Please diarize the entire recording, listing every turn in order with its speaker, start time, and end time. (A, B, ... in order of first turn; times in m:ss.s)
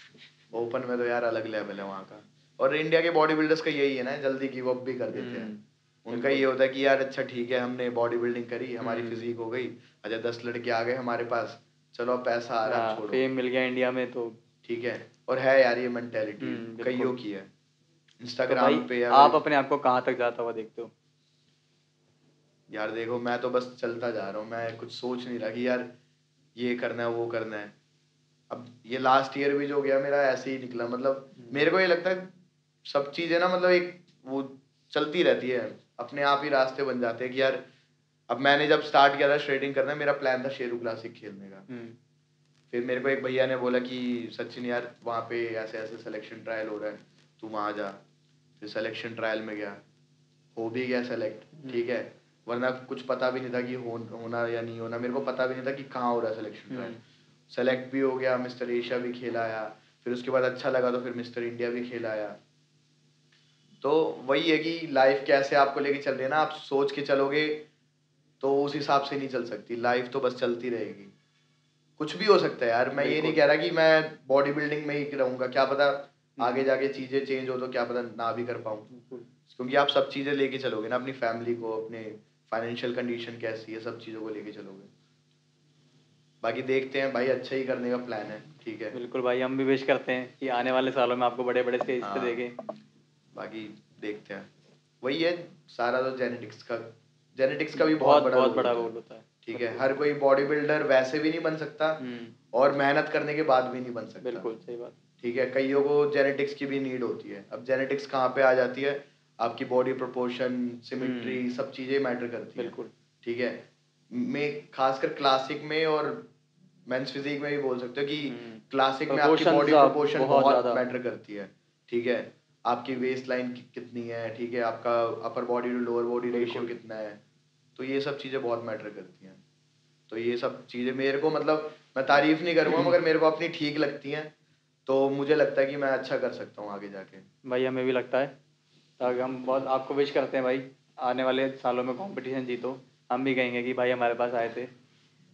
0:00.5-0:05.5 A
0:05.1-0:06.4 B
0:06.0-0:13.2 A
0:08.8-0:09.3 B
0:12.6-0:14.4 B
0:14.6-0:17.5 A
0:16.4-0:17.1 B
0:18.2-0:19.4 A
0:18.5-0:20.9 B
0:22.7-0:25.9 A
0:26.6-0:27.7 A
0:28.5-0:32.3 A
0:32.8-0:37.6 A
0:38.3-0:41.6 A
0:41.7-0:41.9 B
0:42.7-0:48.0 A
0:48.6-0:49.8 A
0:50.6-0:57.0 A
0:56.7-0:57.0 B
0:57.5-1:02.4 A
1:03.8-1:07.7 A
1:08.4-1:11.1 A
1:12.0-1:18.8 A
1:13.0-1:13.4 B
1:18.9-1:19.3 B
1:19.5-1:24.9 A
1:26.4-1:29.0 A
1:28.9-1:32.5 B
1:32.0-1:32.4 A
1:33.3-1:34.5 A
1:35.0-1:38.9 A
1:37.7-1:39.8 B
1:39.4-1:42.0 A
1:42.0-1:42.3 B
1:42.5-1:44.5 A
1:44.2-1:45.0 B
1:45.2-1:56.3 A
1:51.0-1:51.4 B
1:52.6-1:52.9 B
1:56.9-2:07.2 A
1:58.2-2:00.8 B
2:06.3-2:06.7 B
2:07.8-2:09.4 A
2:10.1-2:14.3 A
2:14.8-2:17.2 A
2:17.4-2:18.3 B
2:19.0-2:24.7 B